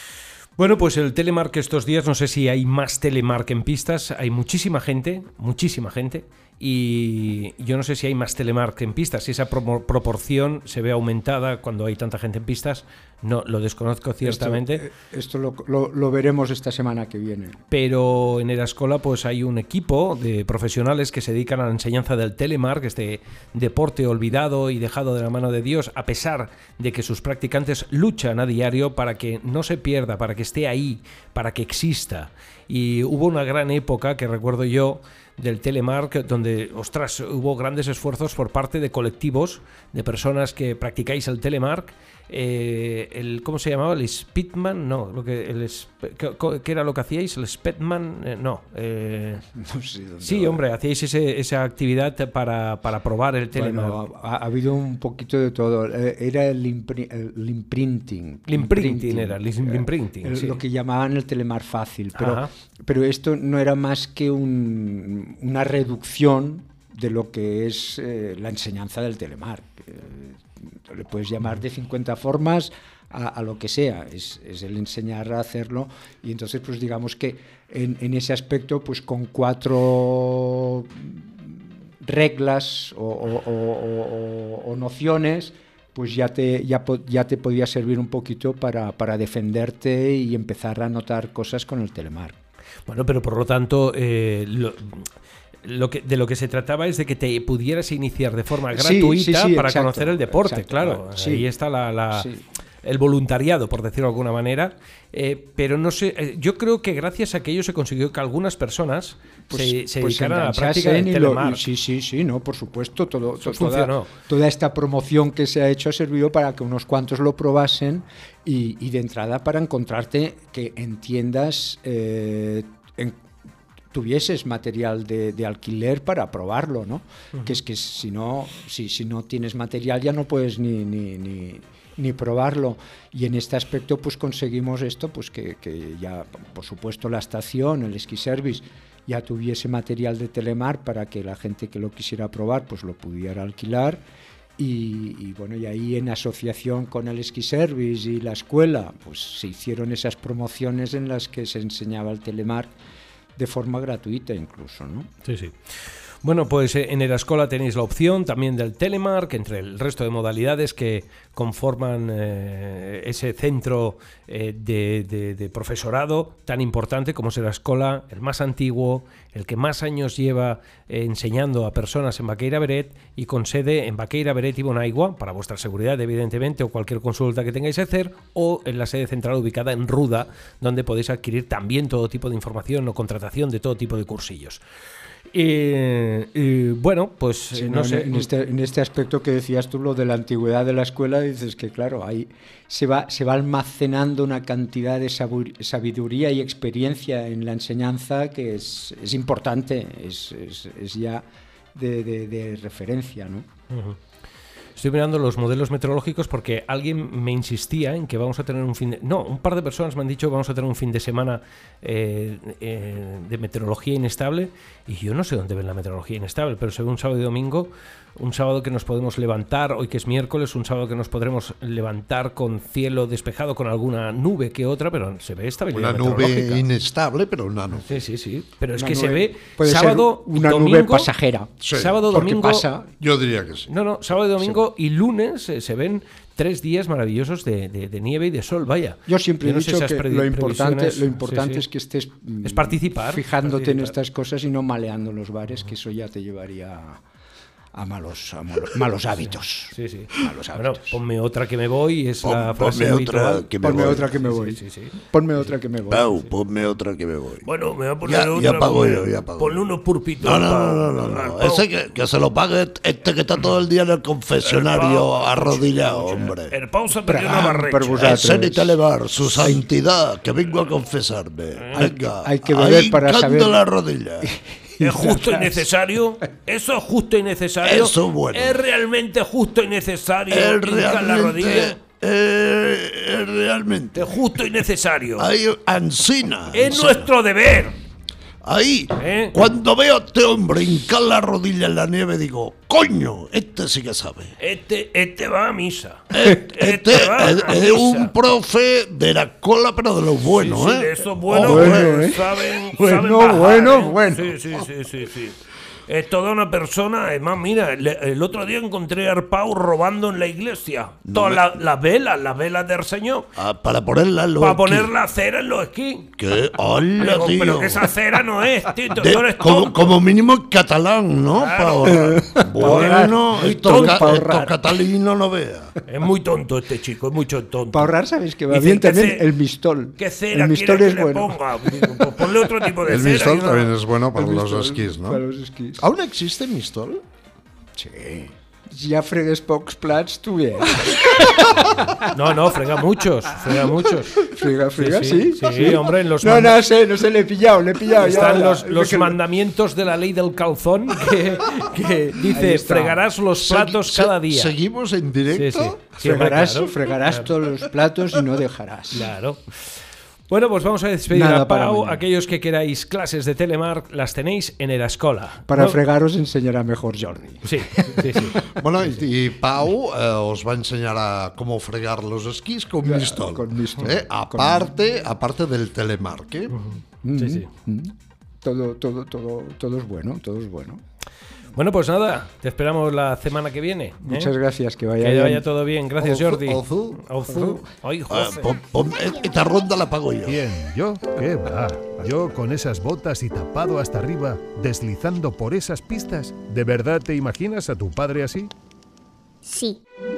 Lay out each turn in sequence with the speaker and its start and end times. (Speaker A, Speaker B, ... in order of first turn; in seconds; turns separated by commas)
Speaker A: 0.6-14.8, Speaker B: 14.2-17.6, Speaker A: 17.7-49.5, Speaker B: 49.5-50.6, Speaker A: 50.2-54.0, Speaker B: 53.5-92.4, Speaker A: 58.5-60.6, Speaker A: 62.1-62.5, Speaker A: 92.9-95.1, Speaker A: 95.6-102.3, Speaker B: 98.7-101.5, Speaker B: 102.1-102.4, Speaker A: 102.8-111.6, Speaker B: 109.5-123.2, Speaker A: 113.4-114.1, Speaker B: 123.9-144.0, Speaker B: 144.6-152.7, Speaker B: 153.4-155.1, Speaker A: 155.2-155.6, Speaker A: 156.2-184.6, Speaker A: 185.3-188.3, Speaker B: 187.5-203.4, Speaker A: 203.7-204.0, Speaker A: 204.8-226.7, Speaker C: 225.7-228.0, Speaker A: 227.8-231.1, Speaker B: 228.7-232.9, Speaker C: 231.6-232.3, Speaker A: 231.7-232.7, Speaker C: 233.0-233.7, Speaker A: 233.7-241.7, Speaker B: 234.4-234.6, Speaker B: 239.1-247.0, Speaker A: 242.4-243.9, Speaker B: 247.7-251.0, Speaker A: 249.7-255.0, Speaker C: 252.2-254.1, Speaker B: 253.6-254.6, Speaker B: 255.1-256.1, Speaker C: 255.9-257.5, Speaker A: 257.4-261.7, Speaker C: 258.0-259.6, Speaker C: 260.2-266.5, Speaker A: 264.4-268.1, Speaker B: 267.0-269.7, Speaker C: 267.9-274.3, Speaker A: 271.6-271.9, Speaker B: 271.7-273.7, Speaker B: 274.2-275.7, Speaker A: 274.8-281.8, Speaker C: 277.6-278.6, Speaker C: 280.3-284.6, Speaker A: 283.9-285.3, Speaker C: 285.2-287.1, Speaker A: 286.5-287.8, Speaker C: 288.4-294.3, Speaker A: 289.0-289.4, Speaker A: 294.4-298.1, Speaker C: 296.1-302.1, Speaker A: 300.3-313.3, Speaker B: 301.3-304.4, Speaker C: 311.1-311.6, Speaker C: 313.4-314.9, Speaker A: 314.4-316.1, Speaker C: 316.2-318.2, Speaker A: 317.0-320.0, Speaker C: 318.9-325.8, Speaker A: 321.3-324.5, Speaker B: 321.9-324.5, Speaker A: 325.9-327.9, Speaker B: 327.7-332.1, Speaker A: 328.5-329.3, Speaker A: 330.0-333.7, Speaker C: 332.9-335.2, Speaker B: 334.1-335.9, Speaker C: 335.8-337.0, Speaker B: 337.8-342.1, Speaker A: 342.1-346.6, Speaker B: 343.7-349.2, Speaker A: 348.0-354.6, Speaker B: 352.2-353.1, Speaker C: 353.4-355.9, Speaker A: 355.3-357.3, Speaker B: 356.0-359.1, Speaker A: 358.9-359.4, Speaker A: 360.3-365.8, Speaker B: 361.1-362.1, Speaker B: 365.5-368.5, Speaker A: 367.4-368.4, Speaker C: 368.4-376.6, Speaker B: 372.8-374.8, Speaker A: 376.5-377.5, Speaker B: 377.0-380.8, Speaker A: 381.5-384.3, Speaker B: 384.0-385.5, Speaker A: 385.0-388.5, Speaker C: 386.0-387.0, Speaker B: 387.3-387.6, Speaker C: 388.1-390.4, Speaker D: 390.2-398.5